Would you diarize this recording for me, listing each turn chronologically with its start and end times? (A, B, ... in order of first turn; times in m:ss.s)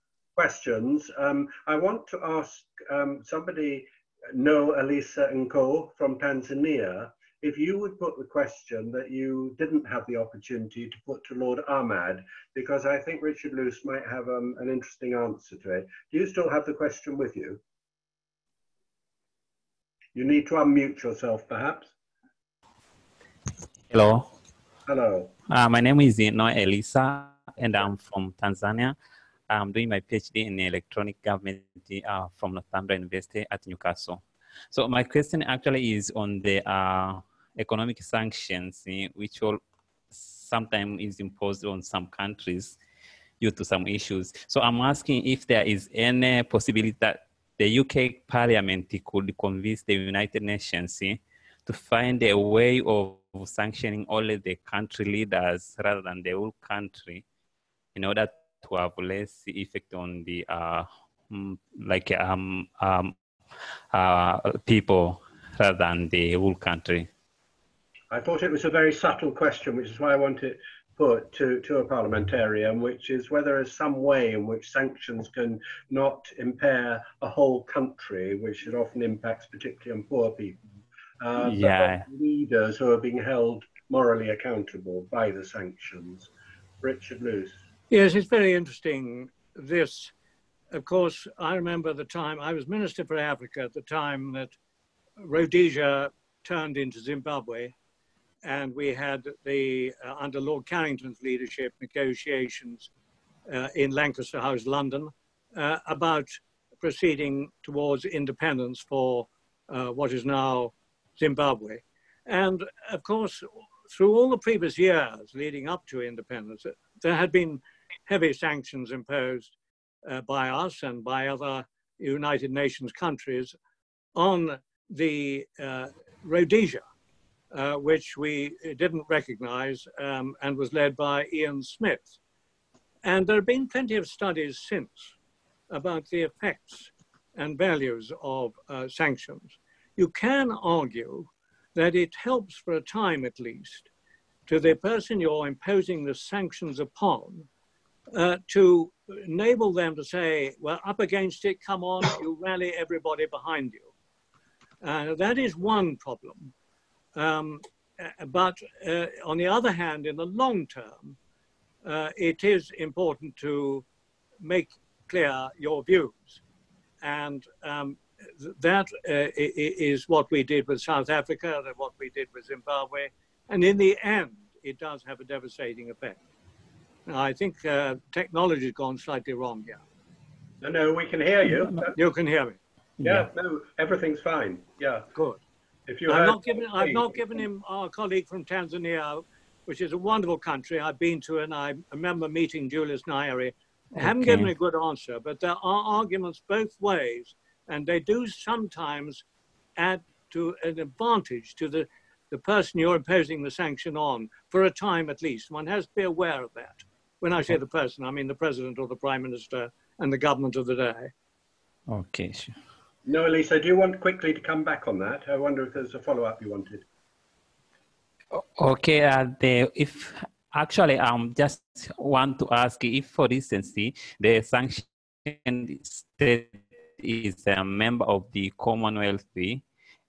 0:00.4-0:17.6 A
0:20.2-0:21.9 A
0:23.9-0:24.3 B
0:24.9-0:25.3 A
0:25.5-0:29.0 B
0:29.5-0:39.6 B
0:40.1-0:42.8 B
0:43.4-0:57.2 B
0:58.0-1:03.2 B
1:03.9-1:07.1 B
1:08.1-1:26.3 A
1:21.4-1:22.0 B
1:26.8-1:27.6 A
1:27.9-1:30.1 C
1:30.7-1:34.6 C
1:35.2-1:37.8 C
1:38.4-1:42.9 C
1:43.5-1:59.5 C
2:00.0-2:03.6 C
2:04.2-2:06.8 C
2:07.5-2:12.2 C
2:13.0-2:15.2 C
2:15.7-2:23.9 C
2:24.5-2:27.5 C
2:28.1-2:33.9 C
2:34.8-2:36.5 C
2:37.2-2:41.2 C
2:41.8-2:43.9 C
2:44.4-2:46.4 C
2:47.0-2:56.2 C
2:57.1-2:59.8 C
3:00.6-3:02.0 A
3:02.0-3:02.6 C
3:03.0-3:03.3 B
3:03.0-3:05.1 A
3:05.2-3:05.4 C
3:05.9-3:07.4 A
3:06.1-3:19.2 C
3:14.0-3:14.5 B
3:19.8-3:31.1 C
3:31.9-3:32.6 B
3:33.1-3:36.9 A
3:38.3-3:49.6 B